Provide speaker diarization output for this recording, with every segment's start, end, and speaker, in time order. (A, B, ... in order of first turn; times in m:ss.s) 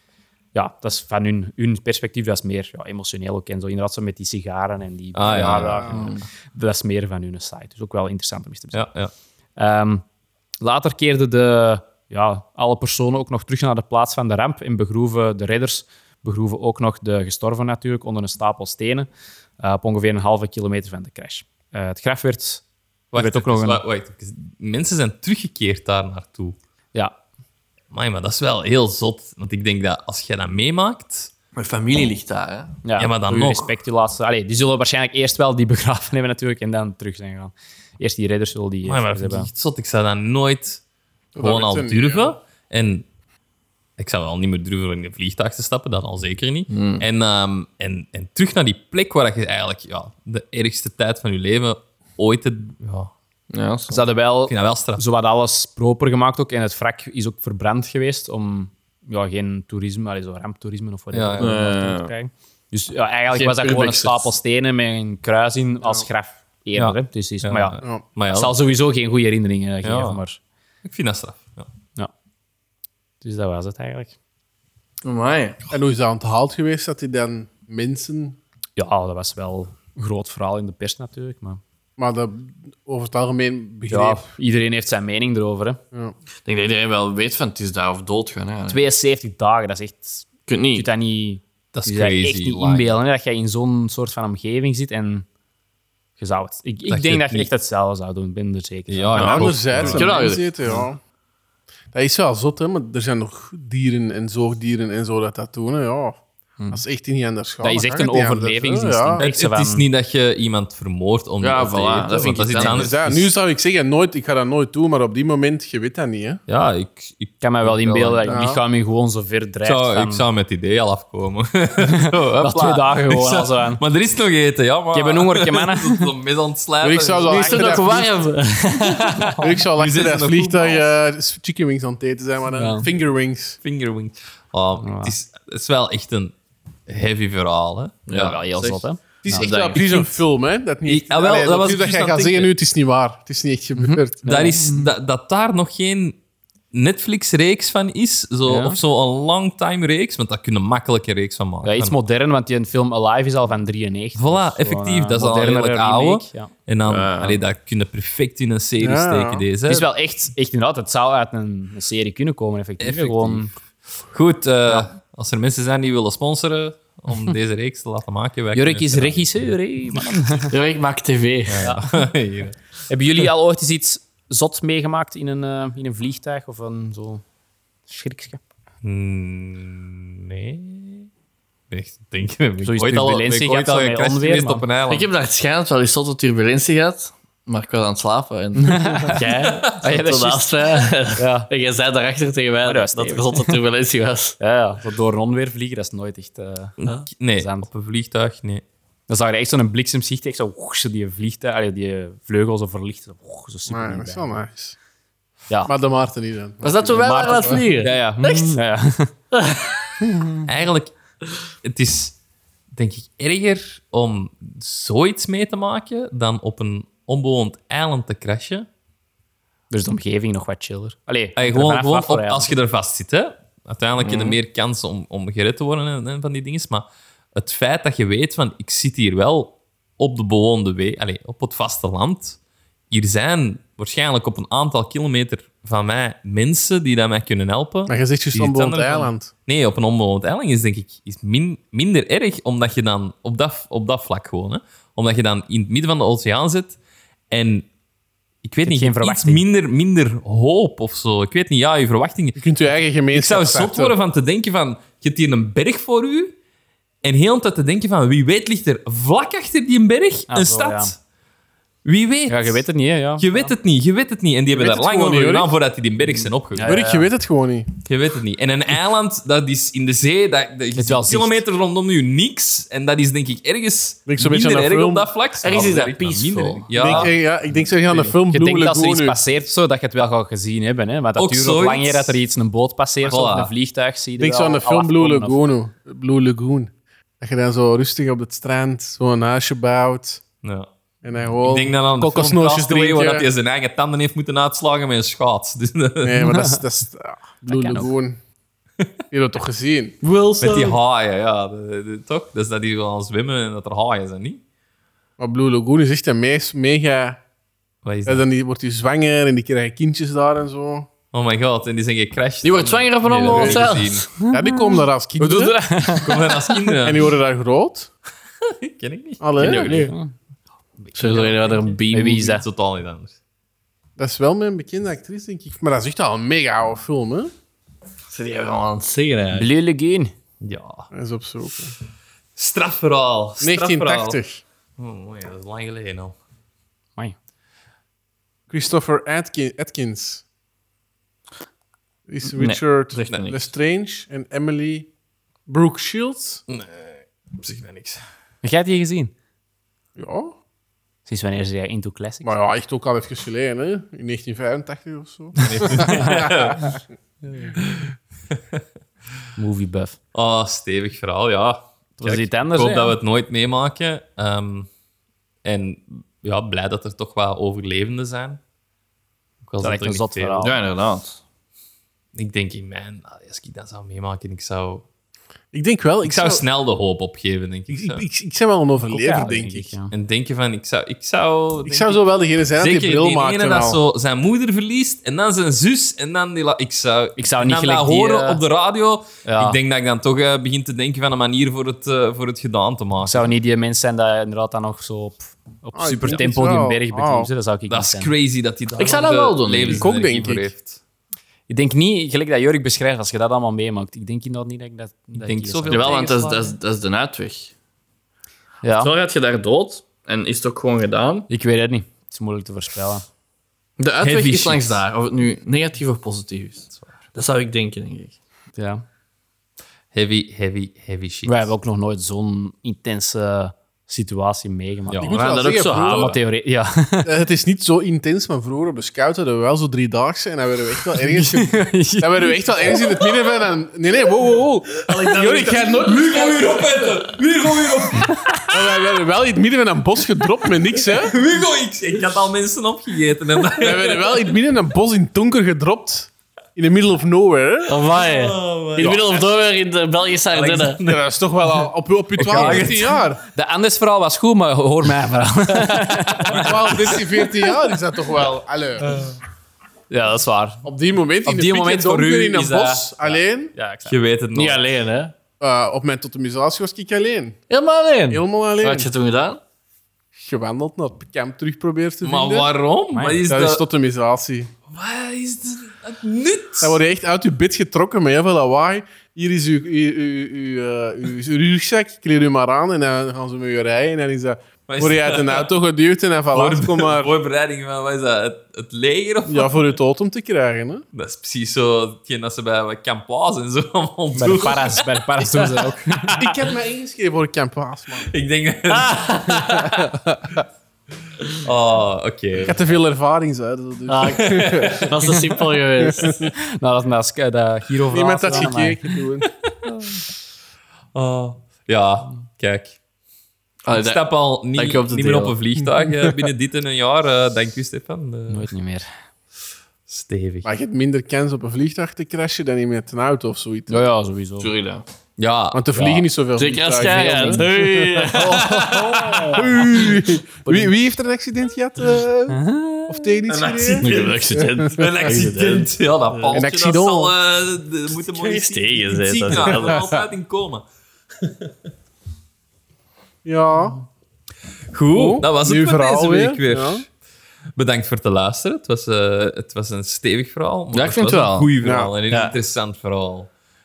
0:00.5-0:08.8 A
0:05.1-0:06.0 B
0:05.3-0:05.8 C
0:05.9-0:06.2 D
0:08.7-0:09.1 B
0:09.6-0:10.0 A
0:10.6-0:19.1 A
0:19.6-0:22.6 A
0:23.1-0:26.6 B
0:23.1-0:23.8 A
0:27.9-0:31.3 B
0:31.5-0:32.8 D
0:32.8-0:39.5 A
0:33.0-0:33.7 B
0:38.8-0:40.8 B
0:41.3-0:42.3 C
0:41.4-0:43.0 B
0:44.0-0:53.1 B
0:46.7-0:47.0 D
0:53.5-0:54.0 D
0:53.9-1:07.8 A
0:54.5-0:55.0 B
1:01.1-1:01.5 B
1:01.4-1:02.1 D
1:03.3-1:04.3 D
1:06.8-1:08.6 B
1:08.3-1:10.4 A
1:09.8-1:10.2 B
1:10.8-1:11.7 B
1:13.2-1:14.1 A
1:15.0-1:15.6 D
1:15.7-1:18.4 C
1:18.8-1:21.6 A
1:22.0-1:24.3 C
1:23.9-1:25.8 A
1:26.4-1:28.8 D
1:28.7-1:35.2 A
1:30.5-1:30.9 D
1:31.7-1:32.9 B
1:36.2-1:39.4 A
1:36.9-1:37.5 B
1:38.9-1:40.1 B
1:39.2-1:40.5 D
1:39.2-1:41.0 C
1:41.9-1:46.2 C
1:46.7-1:49.2 C
1:47.6-1:49.8 A
1:49.2-1:53.3 B
1:51.4-1:53.0 D
1:52.6-1:56.4 C
1:56.5-1:58.4 B
1:57.4-2:00.2 A
1:58.2-1:58.6 C
1:59.6-2:07.8 B
2:01.8-2:03.8 A
2:04.9-2:06.1 A
2:06.8-2:08.1 C
2:07.2-2:09.4 D
2:08.8-2:09.5 A
2:09.4-2:13.6 C
2:09.7-2:10.9 B
2:12.5-2:12.9 A
2:13.6-2:16.3 B
2:14.8-2:15.1 A
2:16.9-2:18.4 B
2:18.1-2:20.2 D
2:18.1-2:19.5 A
2:19.2-2:24.5 C
2:20.8-2:22.5 B
2:23.8-2:24.9 A
2:24.2-2:26.2 B
2:26.7-2:32.0 B
2:28.4-2:28.8 A
2:31.6-2:36.5 A
2:34.1-2:39.9 B
2:36.8-2:37.4 D
2:38.8-2:39.4 C
2:39.7-2:43.5 A
2:42.8-2:43.4 B
2:44.1-2:50.2 B
2:48.5-2:50.5 A
2:50.5-2:51.7 D
2:51.5-2:52.6 B
2:51.6-2:51.9 A
2:52.9-2:57.2 A
2:57.9-2:58.4 A
2:58.8-3:01.1 B
3:01.7-3:05.1 B
3:02.6-3:04.7 A
3:04.9-3:14.4 D
3:08.6-3:11.5 A
3:12.6-3:13.6 A
3:14.4-3:16.8 A
3:16.8-3:18.6 B
3:17.4-3:17.7 A
3:19.1-3:24.4 A
3:23.7-3:24.8 C
3:25.6-3:27.6 C
3:26.6-3:28.5 D
3:27.0-3:29.1 A
3:29.3-3:29.9 D
3:30.0-3:30.4 A
3:30.4-3:30.9 B
3:31.6-3:32.2 B
3:32.7-3:38.7 B
3:39.7-3:42.5 A
3:41.4-3:52.4 B
3:44.0-3:44.3 D
3:52.9-4:06.8 B
3:57.9-3:59.3 C
4:07.3-4:07.7 B
4:08.4-4:12.4 B
4:08.6-4:09.4 A
4:12.4-4:13.9 C
4:13.1-4:16.3 B
4:17.0-4:20.9 B
4:20.3-4:20.9 A
4:21.8-4:22.6 B
4:22.3-4:23.5 A
4:23.2-4:26.8 B
4:24.5-4:25.5 C
4:26.5-4:27.1 A
4:26.6-4:27.7 C
4:27.8-4:37.1 B
4:30.8-4:31.4 A
4:34.0-4:35.0 C
4:35.4-4:37.1 D
4:36.8-4:39.2 C
4:37.9-4:45.4 A
4:41.2-4:42.2 B
4:43.0-4:43.5 B
4:44.2-4:50.2 C
4:50.4-4:50.7 B
4:51.0-4:53.2 C
4:51.4-4:56.4 B
4:56.0-4:58.2 C
4:56.2-4:56.6 A
4:57.5-4:57.9 A
4:59.1-5:00.0 C
5:00.0-5:00.8 D
5:00.4-5:04.4 B
5:05.2-5:07.2 C
5:07.8-5:08.2 B
5:08.0-5:10.9 C
5:11.1-5:14.1 B
5:12.4-5:14.2 D
5:13.2-5:15.6 C
5:14.2-5:16.5 A
5:15.9-5:17.1 B
5:16.8-5:17.9 C
5:18.4-5:19.9 B
5:19.2-5:19.9 C
5:19.4-5:19.9 D
5:19.7-5:20.1 A
5:20.8-5:23.1 B
5:20.9-5:22.4 D
5:21.9-5:22.4 A
5:24.0-5:27.3 C
5:28.1-5:29.5 D
5:29.3-5:30.1 A
5:30.4-5:30.9 B
5:30.9-5:31.7 C
5:32.4-5:34.2 B
5:33.4-5:34.4 C
5:34.8-5:36.2 B
5:38.5-5:40.2 C
5:42.1-5:44.9 C
5:42.4-5:43.5 D
5:45.5-5:46.4 C
5:46.5-5:48.0 B
5:48.4-5:49.1 A
5:50.0-5:50.3 C
5:51.0-5:52.3 A
5:52.2-5:56.7 C
5:55.4-5:56.7 B
5:55.6-5:56.2 A
5:58.3-5:58.6 B
5:59.4-6:00.0 A
6:00.1-6:04.7 B
6:02.0-6:03.0 A
6:05.4-6:08.4 B
6:09.4-6:10.5 B
6:09.6-6:10.6 A
6:10.4-6:11.2 D
6:12.1-6:14.8 B
6:15.5-6:16.4 C
6:16.0-6:18.0 B
6:17.7-6:19.7 C
6:18.9-6:19.9 A
6:19.9-6:22.0 B
6:21.6-6:23.8 C
6:22.6-6:33.3 B
6:27.2-6:28.4 A
6:29.2-6:29.6 A
6:33.0-6:38.1 A
6:35.7-6:37.3 C
6:37.7-6:40.8 B
6:38.8-6:39.9 D
6:39.6-6:40.5 C
6:41.5-6:46.0 A
6:45.2-6:46.5 B
6:45.7-6:47.5 D
6:48.6-6:48.9 A
6:48.8-6:51.3 D
6:51.3-6:53.0 A
6:53.8-6:58.2 D
6:54.0-6:54.8 B
6:58.6-6:58.8 A
6:59.9-7:01.5 B
7:01.2-7:07.1 A
7:04.9-7:06.2 B
7:05.0-7:06.1 C
7:05.1-7:06.1 D
7:07.0-7:16.9 C
7:11.0-7:12.9 A
7:14.8-7:18.8 B
7:18.0-7:18.5 A
7:18.5-7:21.1 C
7:20.8-7:24.3 B
7:23.6-7:27.9 C
7:27.7-7:30.8 D
7:28.0-7:29.2 B
7:30.3-7:31.0 B
7:30.8-7:33.2 C
7:32.2-7:33.0 B
7:32.2-7:32.7 A
7:33.3-7:37.0 A
7:36.2-7:36.9 B
7:36.2-7:39.0 C
7:39.9-7:40.6 A
7:40.6-7:43.5 C
7:41.2-7:43.9 A
7:43.8-7:44.6 B
7:44.3-7:45.1 D
7:45.4-7:47.4 C
7:47.5-7:49.4 D
7:48.1-7:48.9 C
7:50.2-7:52.5 C
7:52.0-7:53.6 B
7:52.9-7:53.2 A
7:53.2-7:54.5 C
7:54.7-7:56.8 B
7:56.6-8:07.1 C
8:04.7-8:05.5 B
8:06.3-8:09.7 B
8:09.3-8:10.8 C
8:10.9-8:15.4 B
8:14.1-8:16.3 A
8:16.1-8:18.1 C
8:18.1-8:19.9 B
8:18.8-8:19.2 D
8:19.4-8:20.4 C
8:21.4-8:22.6 B
8:22.4-8:25.1 C
8:23.9-8:26.3 D
8:24.1-8:24.9 B
8:25.8-8:26.3 C
8:26.6-8:28.9 A
8:27.9-8:29.3 C
8:30.9-8:32.8 B
8:33.6-8:35.4 D
8:33.7-8:38.5 B
8:38.3-8:38.9 A
8:39.9-8:40.5 B
8:40.4-8:43.8 C
8:43.7-8:44.5 A
8:44.4-8:44.8 D
8:45.2-8:45.9 B
8:45.5-8:54.9 C
8:45.7-8:46.0 A
8:46.4-8:49.7 D
8:47.1-8:49.8 A
8:48.5-8:49.3 B
8:52.3-8:53.2 A
8:53.3-9:00.6 B
8:53.7-8:56.4 D
8:56.3-8:57.1 C
8:57.9-8:59.9 D
8:59.3-9:00.0 C
9:01.2-9:01.5 B
9:03.2-9:03.8 C
9:04.7-9:06.9 B
9:04.9-9:06.8 C
9:07.5-9:13.3 B
9:10.7-9:11.5 D
9:11.6-9:11.9 C
9:12.1-9:12.4 D